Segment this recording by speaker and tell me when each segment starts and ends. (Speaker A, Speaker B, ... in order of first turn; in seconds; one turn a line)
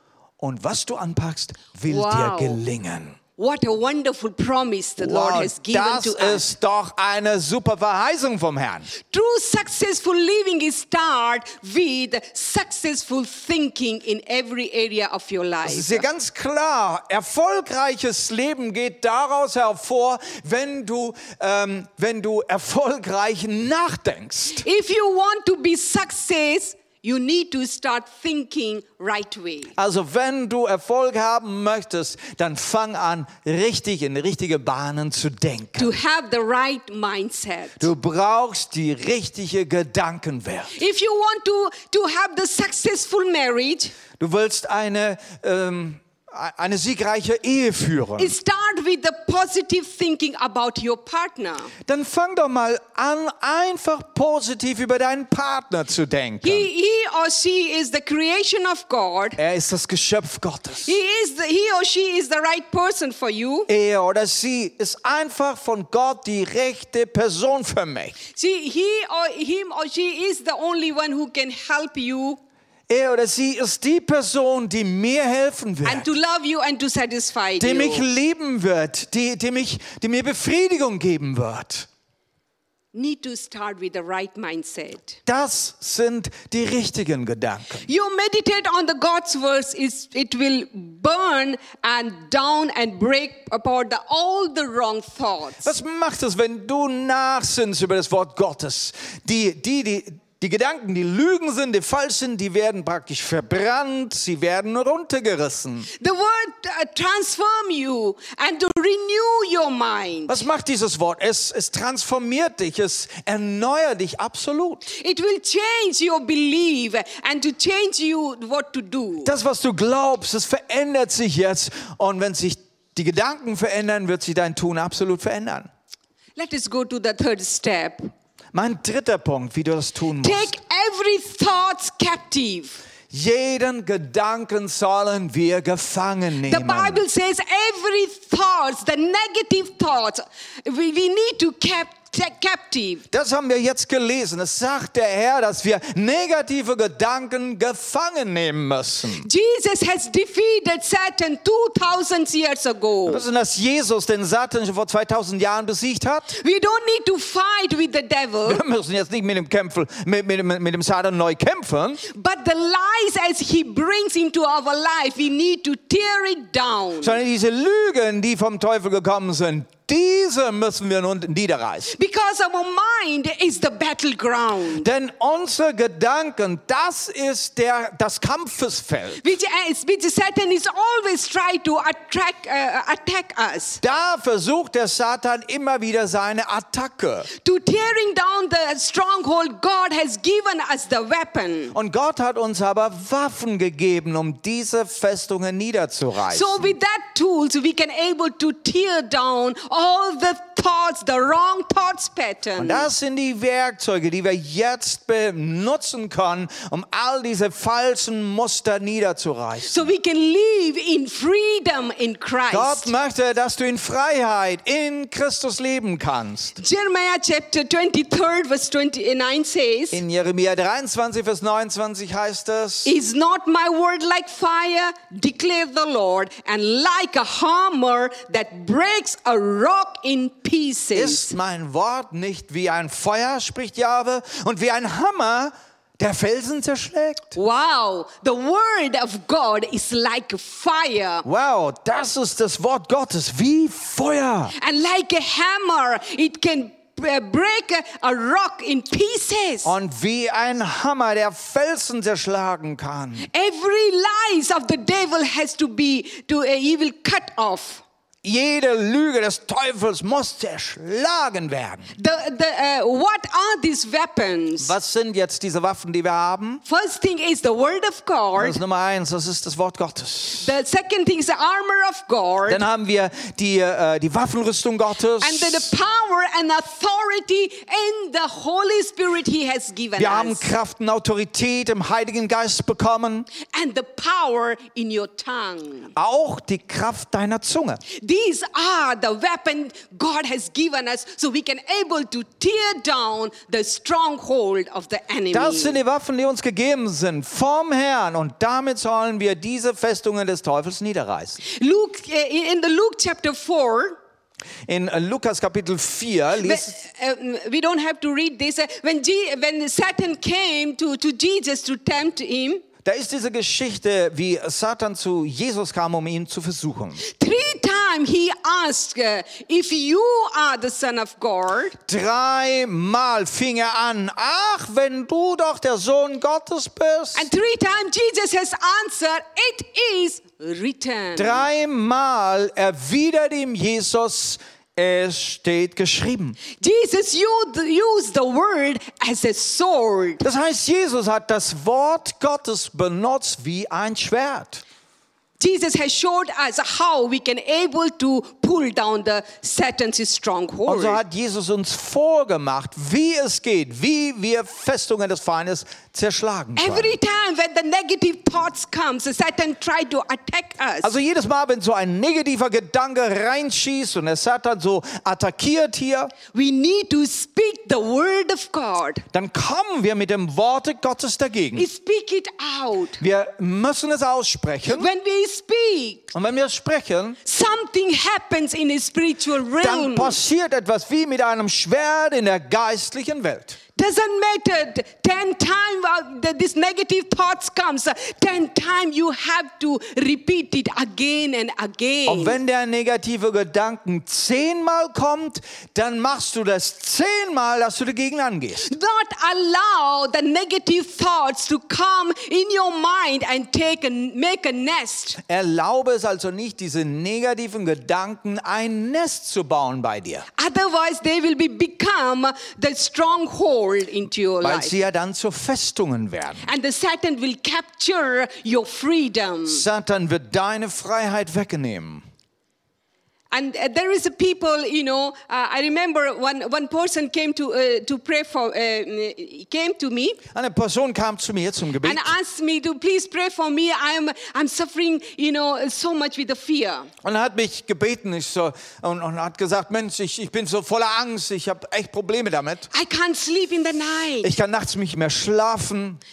Speaker A: 0.4-3.2
Speaker B: 1.9-2.6
Speaker B: 3.4-6.5
Speaker A: 5.0-8.9
Speaker B: 9.0-16.1
Speaker A: 15.6-24.6
Speaker B: 24.6-29.7
Speaker A: 29.8-35.9
Speaker B: 35.8-37.9
Speaker A: 37.8-40.8
Speaker B: 40.7-43.9
Speaker A: 44.2-48.4
Speaker B: 48.2-51.7
Speaker A: 51.9-56.7
Speaker B: 56.4-59.4
Speaker A: 59.4-60.9
Speaker B: 60.8-63.7
Speaker A: 63.7-68.2
Speaker B: 68.3-72.4
Speaker A: 72.9-76.1
Speaker B: 75.8-78.0
Speaker A: 77.6-81.9
Speaker B: 82.9-85.2
Speaker A: 85.2-87.9
Speaker B: 87.8-95.7
Speaker A: 95.6-105.9
Speaker B: 106.0-110.4
Speaker A: 110.3-114.8
Speaker B: 114.9-119.3
Speaker A: 119.2-125.7
Speaker B: 126.4-128.1
Speaker A: 128.5-130.6
Speaker B: 130.2-132.8
Speaker A: 133.1-137.0
Speaker B: 136.4-143.0
Speaker A: 143.1-149.3
Speaker B: 149.2-153.2
Speaker A: 153.1-156.3
Speaker B: 156.3-158.6
Speaker A: 158.4-162.0
Speaker B: 162.0-167.2
Speaker A: 167.0-171.9
Speaker B: 171.9-174.9
Speaker A: 174.8-179.2
Speaker B: 179.2-183.8
Speaker A: 183.8-187.3
Speaker B: 187.3-191.7
Speaker A: 191.7-196.7
Speaker B: 196.3-202.9
Speaker A: 202.6-209.8
Speaker B: 209.6-212.9
Speaker A: 212.5-216.6
Speaker B: 216.6-220.0
Speaker A: 219.9-222.9
Speaker B: 222.8-231.3
Speaker A: 230.9-237.3
Speaker B: 237.3-241.2
Speaker A: 241.2-244.5
Speaker B: 244.6-249.7
Speaker A: 249.6-253.3
Speaker B: 253.3-257.8
Speaker A: 258.2-261.9
Speaker B: 262.0-264.7
Speaker A: 264.6-266.6
Speaker B: 266.6-268.6
Speaker A: 268.4-270.5
Speaker B: 270.4-272.6
Speaker A: 272.5-275.7
Speaker B: 275.2-280.5
Speaker A: 280.0-283.3
Speaker B: 283.4-285.9
Speaker A: 285.9-287.8
Speaker B: 287.9-295.8
Speaker A: 295.3-301.4
Speaker B: 301.4-304.0
Speaker A: 304.7-306.7
Speaker B: 306.4-312.6
Speaker A: 312.8-317.0
Speaker B: 317.0-321.8
Speaker A: 321.9-327.3
Speaker B: 327.1-331.4
Speaker A: 331.1-336.4
Speaker B: 336.6-340.2
Speaker A: 340.2-344.6
Speaker B: 345.4-351.0
Speaker A: 350.7-357.0
Speaker B: 356.6-360.9
Speaker A: 360.8-366.1
Speaker B: 366.3-369.0
Speaker A: 369.1-371.7
Speaker B: 371.5-373.0
Speaker A: 373.0-374.9
Speaker B: 374.7-376.1
Speaker A: 376.1-377.2
Speaker B: 377.2-380.2
Speaker A: 379.6-383.6
Speaker B: 383.8-392.4
Speaker A: 392.1-398.7
Speaker B: 398.6-405.2
Speaker A: 405.2-410.3
Speaker B: 410.4-414.8
Speaker A: 414.4-416.5
Speaker B: 416.4-419.6
Speaker A: 419.5-422.0
Speaker B: 423.3-430.2
Speaker A: 430.3-432.1
Speaker B: 431.8-436.9
Speaker A: 437.0-442.7
Speaker B: 442.7-444.3
Speaker A: 444.2-446.0